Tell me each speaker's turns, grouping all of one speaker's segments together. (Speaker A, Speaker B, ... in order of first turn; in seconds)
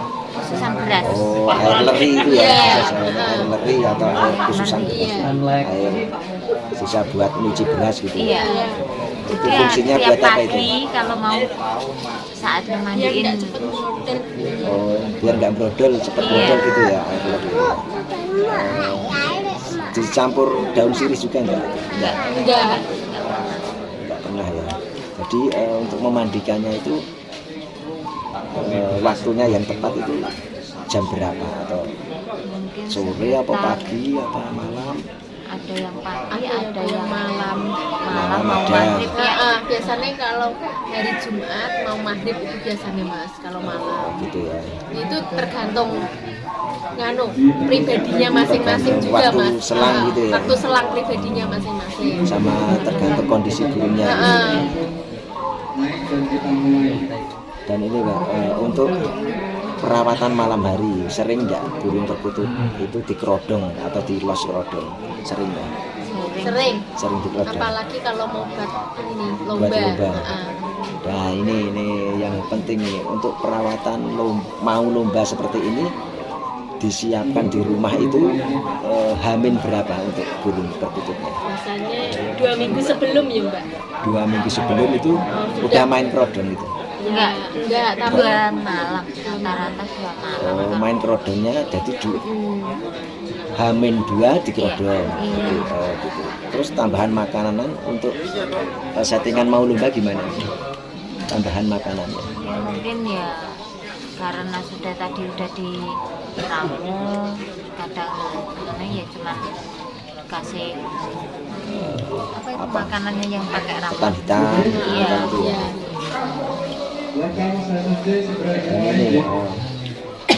Speaker A: 0.3-1.2, 2.5-3.0, 4.2-5.2, 8.2-8.7, 9.4-11.5, 12.4-13.5, 16.2-16.9, 21.9-23.8, 32.5-34.0, 35.5-40.1, 52.8-53.1, 66.1-66.7, 87.1-87.4, 88.0-91.0, 94.6-95.7, 102.4-103.3, 104.2-105.7, 106.4-109.5, 110.3-110.7, 112.4-115.4
Speaker B: 1.0-6.0, 6.8-8.3, 9.3-10.7, 14.7-17.8, 18.5-19.1, 19.9-22.2, 23.3-27.0, 28.6-30.4, 30.9-31.9, 32.9-35.0, 38.1-39.0, 44.0-44.7, 48.4-50.6, 52.3-54.4, 57.7-59.0, 59.8-65.7, 67.0-67.7, 69.6-70.3, 71.0-75.9, 76.8-81.4, 84.0-86.7, 90.4-92.2, 93.6-98.1, 99.0-100.5, 101.3-102.3, 111.7-113.0, 113.9-115.7, 118.7-119.7
Speaker C: 2.3-3.5, 4.9-5.3, 8.3-8.8, 12.9-14.8, 22.3-22.8, 36.3-37.6, 39.2-44.1, 44.9-45.9, 47.0-52.2, 54.0-54.6, 66.4-66.8, 67.5-70.5, 81.5-83.7, 85.3-85.9, 87.0-88.3, 89.2-89.8, 92.2-92.8, 114.7-115.7